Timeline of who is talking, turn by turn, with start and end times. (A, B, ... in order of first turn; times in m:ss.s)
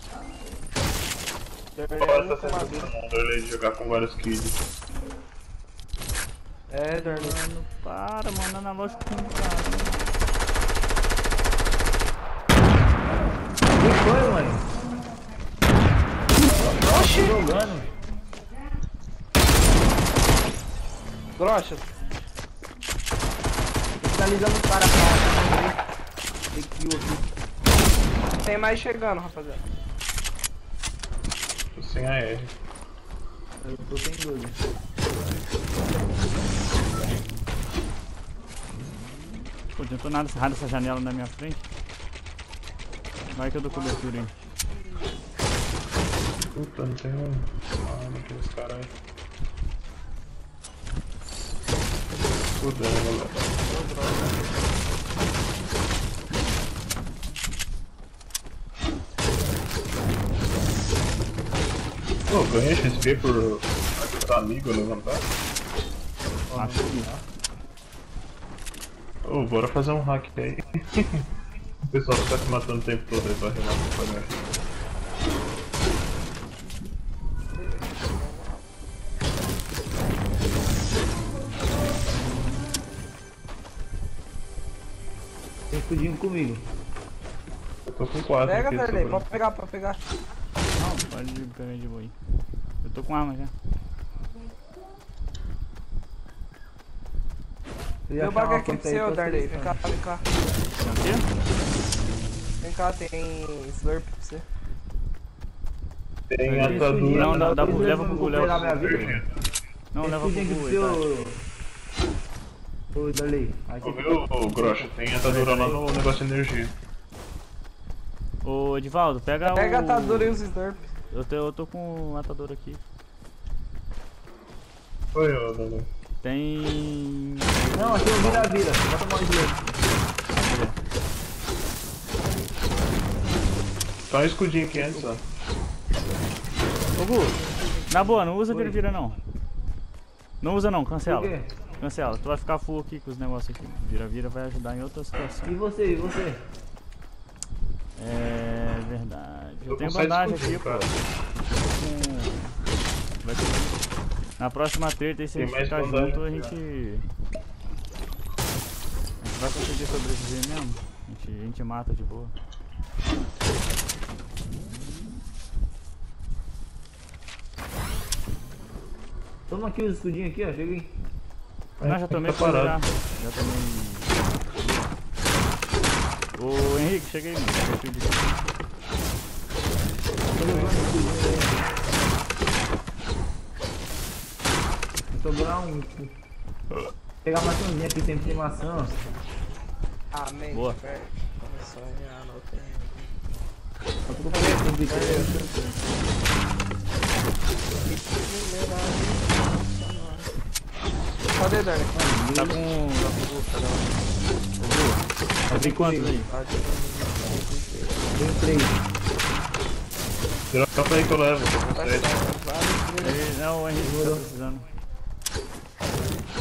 0:01.7-0:02.9 A
0:02.0-0:04.6 B
0:06.7-0:07.4 A
0:06.9-0:10.0 C
0:13.8-0:14.6 D
0:16.4-0:17.9 D
0:16.6-0:17.5 A
0:21.4-0:21.9 A
0:24.0-0:25.8 D
0:26.5-0:27.3 D
0:28.4-0:29.6 A
0:31.8-0:32.5 B
0:33.6-0:34.6 D
0:39.8-0:41.6 C
0:43.3-0:44.3 C
0:43.7-0:45.1 A
0:46.6-0:48.9 B
0:52.6-0:53.6 B
0:53.6-0:54.4 A
1:02.3-1:05.3 B
1:06.5-1:07.2 D
1:06.5-1:07.1 C
1:09.2-1:11.3 B
1:11.9-1:14.4 B
1:17.6-1:18.6 A
1:25.7-1:26.6 D
1:27.8-1:29.3 B
1:28.5-1:30.0 A
1:30.7-1:32.2 C
1:32.8-1:33.5 C
1:38.1-1:39.8 D
1:38.2-1:40.2 A
1:40.8-1:41.2 C
1:42.6-1:44.4 A
1:46.3-1:47.6 B
1:46.4-1:49.2 C
1:46.6-1:49.2 D
1:48.7-1:49.2 B
1:49.9-1:51.0 C
1:50.0-1:51.4 D
1:53.0-1:55.0 D
1:53.8-1:56.7 B
1:55.2-1:55.8 C
1:58.4-2:00.4 C
1:59.4-2:00.8 A
2:01.1-2:02.8 C
2:05.1-2:05.9 B
2:06.2-2:08.6 C
2:07.7-2:09.7 D
2:10.3-2:10.8 C
2:14.1-2:15.2 B
2:14.7-2:15.1 D
2:17.0-2:19.2 C
2:18.0-2:18.8 D
2:20.4-2:25.5 C
2:21.1-2:21.5 D
2:25.4-2:26.4 D
2:28.0-2:31.0 C
2:29.6-2:30.9 B
2:31.5-2:32.6 C
2:33.2-2:33.8 C
2:34.4-2:37.0 C
2:35.4-2:36.6 B
2:39.2-2:42.3 C
2:49.5-2:50.9 D
2:51.8-2:52.8 B
2:51.8-2:54.9 C
2:56.4-2:58.4 C
3:00.4-3:01.6 D
3:00.4-3:00.8 A
3:05.1-3:06.1 D
3:07.2-3:09.0 D
3:10.1-3:13.2 A
3:10.5-3:10.8 C
3:14.1-3:15.7 D
3:14.3-3:15.4 A
3:17.8-3:20.4 A
3:21.3-3:21.9 A
3:22.0-3:22.6 D
3:22.3-3:24.0 C
3:24.6-3:26.3 C
3:25.5-3:26.2 D
3:26.2-3:28.1 A
3:28.2-3:28.8 D
3:30.5-3:32.1 B
3:31.7-3:33.2 A
3:33.0-3:34.6 C
3:33.8-3:34.2 D